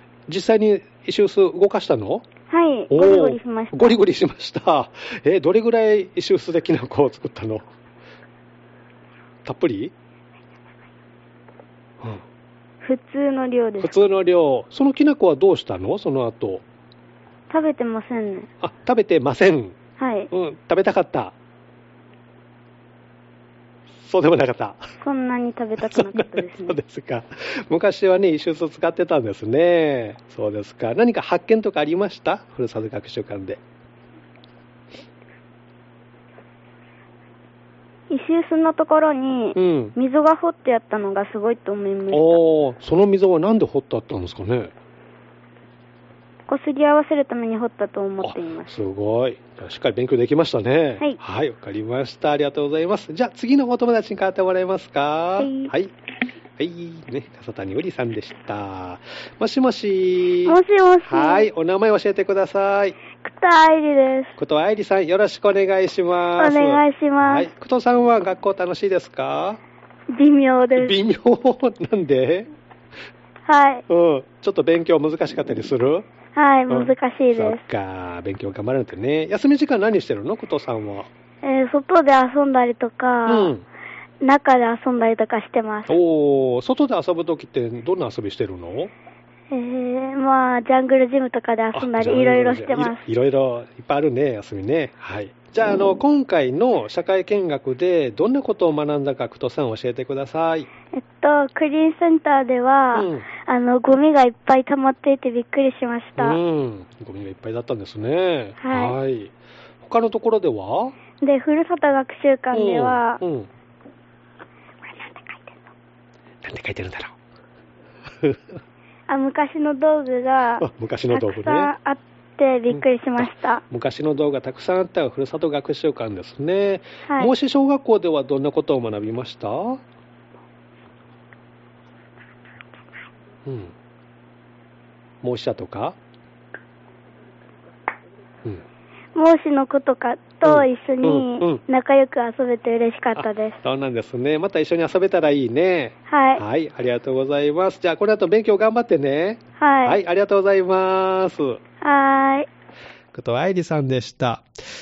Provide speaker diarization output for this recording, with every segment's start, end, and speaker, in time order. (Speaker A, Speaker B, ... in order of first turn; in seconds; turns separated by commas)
Speaker A: 0.3-2.3, Speaker B: 2.5-4.0, Speaker A: 2.9-7.7, Speaker A: 9.4-9.9, Speaker B: 12.8-14.0, Speaker A: 13.8-16.6, Speaker B: 17.5-18.5, Speaker A: 18.6-19.8, Speaker B: 20.0-20.3, Speaker A: 20.3-21.3, Speaker A: 24.0-24.8, Speaker B: 25.0-26.8, Speaker A: 25.8-33.6, Speaker B: 38.1-42.4, Speaker A: 39.6-40.0, Speaker A: 42.1-44.7, Speaker B: 46.5-48.8, Speaker A: 48.2-55.9, Speaker B: 55.4-55.7, Speaker A: 56.6-63.0, Speaker B: 60.4-61.5, Speaker B: 63.2-64.3, Speaker A: 64.4-69.6, Speaker B: 66.4-67.5, Speaker B: 70.1-71.0, Speaker A: 70.8-72.5, Speaker B: 73.5-73.8, Speaker A: 73.9-76.1, Speaker B: 76.3-77.6, Speaker A: 76.7-81.1, Speaker B: 81.4-83.5, Speaker A: 83.3-83.7, Speaker B: 84.2-85.9, Speaker A: 85.9-88.9, Speaker B: 89.5-93.0, Speaker A: 91.7-100.7, Speaker B: 100.9-106.4, Speaker A: 102.9-103.3, Speaker A: 106.2-111.0, Speaker B: 108.6-109.0, Speaker B: 111.2-113.2, Speaker A: 112.5-113.5, Speaker B: 114.8-115.7, Speaker A: 116.4-117.2, Speaker B: 119.1-123.6, Speaker A: 120.6-121.7, Speaker A: 122.7-129.8, Speaker B: 127.1-127.3, Speaker A: 133.5-133.7, Speaker A: 135.2-136.0, Speaker B: 139.2-143.6, Speaker A: 140.4-141.6, Speaker A: 143.2-151.6, Speaker B: 146.1-146.4, Speaker B: 149.6-150.0, Speaker B: 151.8-152.5, Speaker A: 153.1-154.4